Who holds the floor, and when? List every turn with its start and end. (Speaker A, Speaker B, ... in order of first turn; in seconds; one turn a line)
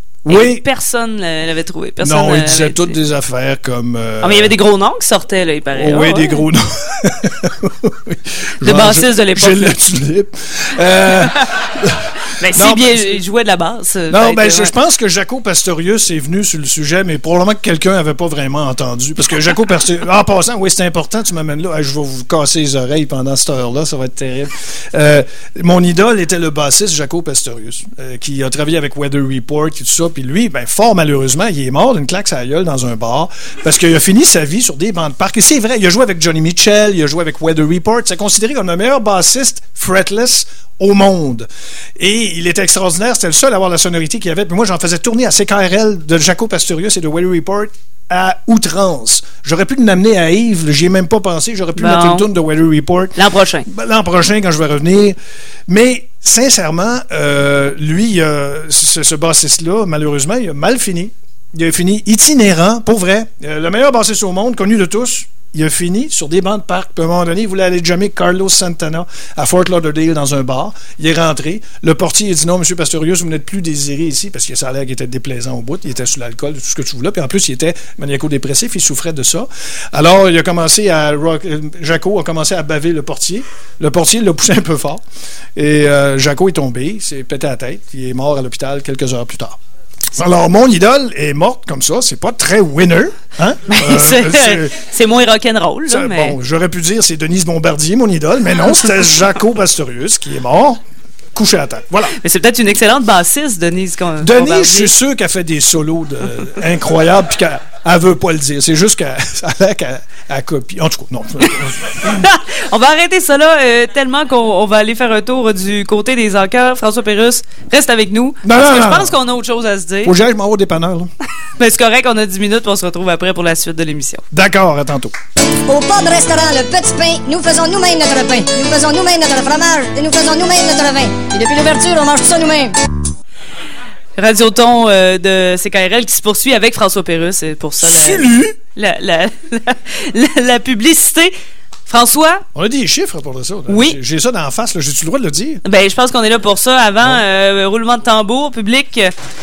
Speaker A: 0.2-0.6
Speaker B: 0.3-3.0
Speaker A: 2.0-4.5
Speaker B: 4.2-6.4
Speaker A: 5.7-13.2
Speaker B: 8.6-9.8
Speaker B: 12.4-14.7
Speaker A: 14.1-55.2
Speaker B: 51.8-52.3
Speaker B: 53.1-53.6
Speaker A: 55.7-85.0
Speaker A: 85.5-89.6
Speaker A: 90.1-94.8
Speaker B: 93.7-96.4
Speaker A: 95.9-100.8
Speaker A: 101.3-102.2
Speaker B: 102.2-104.9
Speaker A: 104.2-112.2
Speaker B: 112.0-120.1
Speaker A: 118.4-119.2
Speaker A: 120.0-121.1
Speaker B: 121.6-124.2
Speaker A: 124.3-125.1
Speaker C: 125.7-132.7
Speaker B: 134.2-141.3
Speaker A: 137.8-138.6
Speaker B: 141.9-142.4
Speaker A: 142.5-145.6
Speaker B: 143.7-144.0
Speaker B: 145.6-149.1